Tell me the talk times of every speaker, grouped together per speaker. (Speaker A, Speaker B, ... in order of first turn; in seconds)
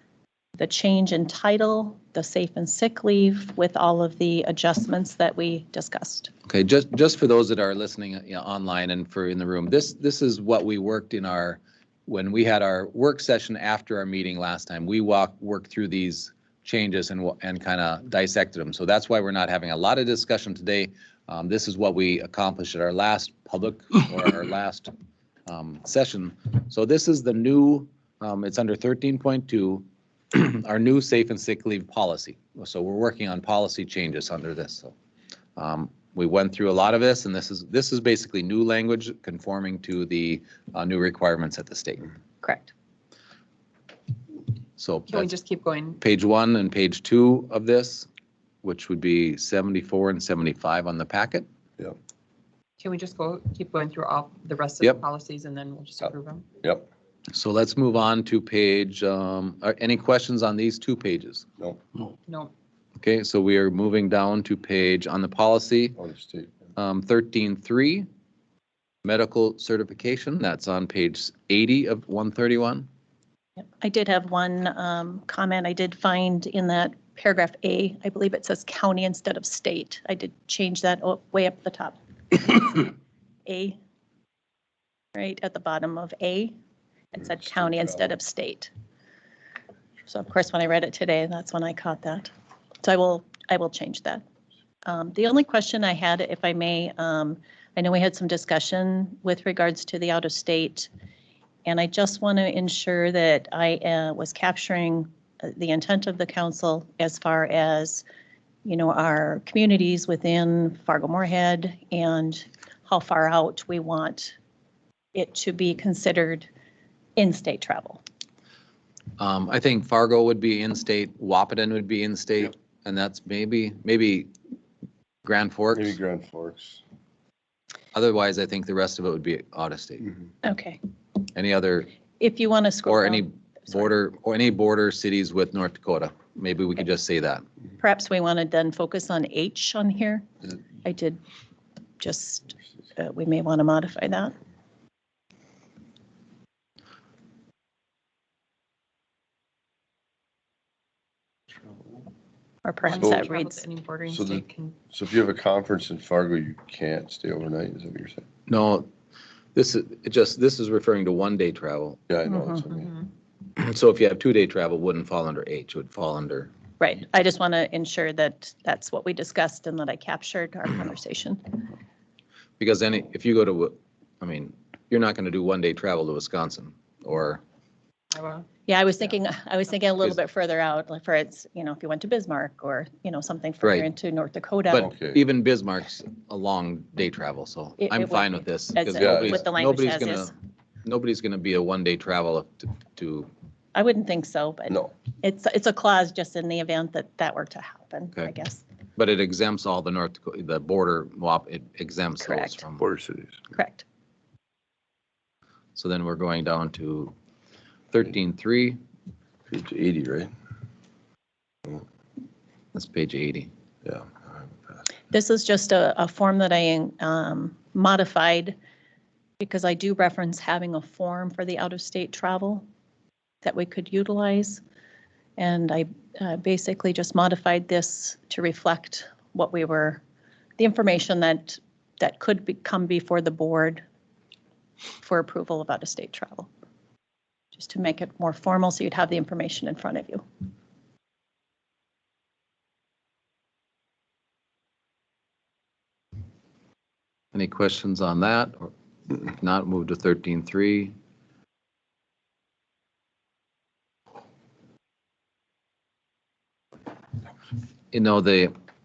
Speaker A: 0.6-6.3, 42.4-42.7, 73.6-82.9, 83.5-83.8, 85.2-86.5, 87.1-88.7, 90.1-92.3, 92.8-94.2, 94.9-100.9, 101.7-108.0, 108.7-114.4, 115.2-116.5, 117.2-118.0, 130.4-130.8, 132.2-133.8, 137.8-140.2, 140.8-141.2, 142.0-144.3, 152.6-153.6, 166.8-171.7, 178.7-184.9, 187.8-190.3, 193.8-198.6, 202.2-202.6, 203.5-203.8, 215.1-218.6, 219.4-222.6, 223.4-224.6, 225.4-230.0, 230.6-233.8, 235.0-236.5, 237.5-240.2
Speaker B: 6.5-24.9, 25.5-34.9, 35.6-42.1, 44.8-45.3, 46.0-48.1, 48.6-51.5, 57.3-61.5, 63.0-66.0, 66.8-68.1, 69.0-72.9, 119.2-124.3, 125.2-125.9, 127.9-130.1, 131.3-131.9, 132.9-137.4, 158.5-158.9, 159.6-162.0, 163.6-166.5, 172.6-177.4, 184.7-190.3, 190.8-193.3, 199.0-202.8, 205.8-207.1, 207.9-208.8, 212.7-213.5, 247.3-250.9, 257.9-258.5
Speaker C: 45.1-46.0, 52.8-56.5, 62.3-62.5, 152.8-154.8, 178.1-178.5
Speaker D: 56.0-56.9, 66.0-66.6, 87.4-88.1, 125.7-126.8, 153.0-153.3, 154.1-158.2, 162.1-162.9, 184.7-185.2, 189.0-189.4, 202.8-203.3, 209.5-210.3, 213.8-214.6